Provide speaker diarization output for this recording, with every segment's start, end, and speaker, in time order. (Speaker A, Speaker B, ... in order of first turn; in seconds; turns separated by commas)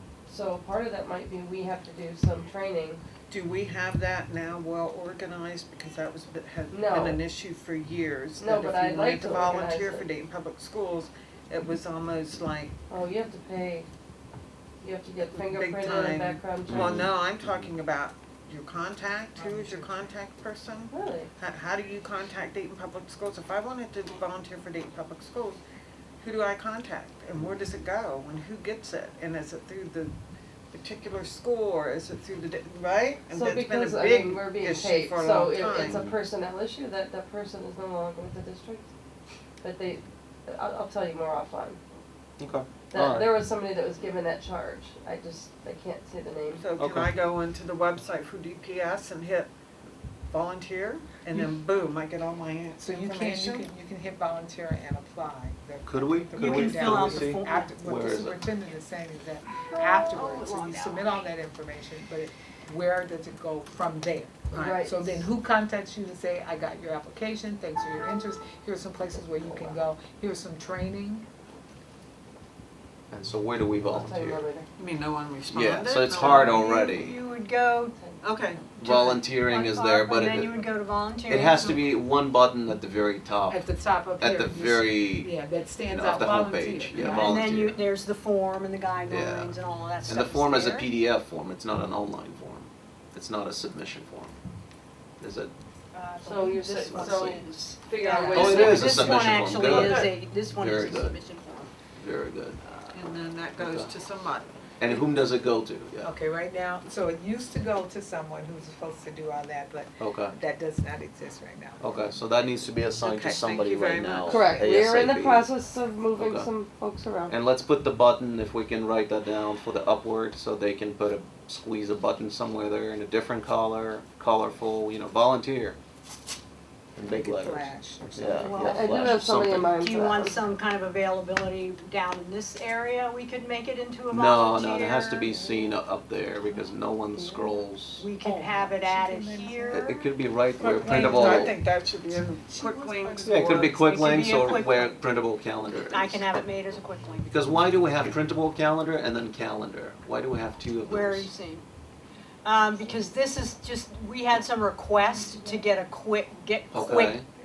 Speaker A: 0.3-3.0, Speaker B: 3.3-12.7, Speaker A: 6.7-7.2, Speaker A: 8.4-10.1, Speaker A: 12.9-13.9, Speaker A: 14.8-17.1, Speaker B: 15.3-25.6, Speaker C: 16.7-17.7, Speaker D: 19.4-20.1, Speaker A: 20.9-21.3, Speaker B: 26.2-30.1, Speaker B: 30.7-36.0, Speaker A: 33.3-38.9, Speaker C: 35.7-36.2, Speaker A: 39.6-41.8, Speaker C: 42.4-43.3, Speaker A: 42.9-46.6, Speaker B: 46.6-49.5, Speaker C: 46.8-47.1, Speaker B: 50.3-53.7, Speaker D: 52.8-71.3, Speaker C: 55.9-58.5, Speaker E: 56.4-57.8, Speaker E: 59.7-61.3, Speaker A: 64.5-65.2, Speaker C: 73.1-74.4, Speaker A: 73.8-74.7, Speaker B: 74.8-76.6, Speaker C: 75.5-77.2, Speaker E: 76.2-78.0, Speaker A: 78.0-78.2, Speaker B: 78.2-79.2, Speaker C: 78.8-80.5, Speaker E: 79.3-81.8, Speaker C: 81.3-83.6, Speaker D: 83.5-87.6, Speaker C: 84.2-85.3, Speaker C: 85.9-87.8, Speaker B: 86.9-87.3, Speaker E: 87.1-90.9, Speaker C: 89.1-94.4, Speaker C: 95.2-95.5, Speaker E: 95.9-101.7, Speaker A: 96.2-97.2, Speaker C: 96.7-97.6, Speaker B: 97.0-100.1, Speaker A: 98.3-98.8, Speaker C: 98.3-101.2, Speaker C: 102.0-102.6, Speaker B: 102.9-104.5, Speaker C: 103.6-103.9, Speaker C: 104.8-106.1, Speaker D: 106.0-111.8, Speaker C: 110.0-110.4, Speaker C: 111.8-115.5, Speaker B: 113.0-114.7, Speaker A: 114.3-117.3, Speaker C: 116.2-116.5, Speaker C: 117.3-125.8, Speaker C: 127.0-130.1, Speaker D: 127.0-128.9, Speaker E: 128.3-129.1, Speaker A: 128.6-130.3, Speaker E: 129.8-135.3, Speaker C: 134.1-138.1, Speaker E: 138.0-139.8, Speaker D: 138.2-140.1, Speaker C: 139.7-141.6, Speaker B: 140.6-143.8, Speaker D: 140.8-141.5, Speaker D: 142.5-143.9, Speaker C: 143.2-146.4, Speaker E: 143.8-145.0, Speaker E: 145.9-147.7, Speaker C: 147.2-151.3, Speaker E: 150.8-151.7, Speaker E: 152.4-157.2, Speaker C: 156.7-157.2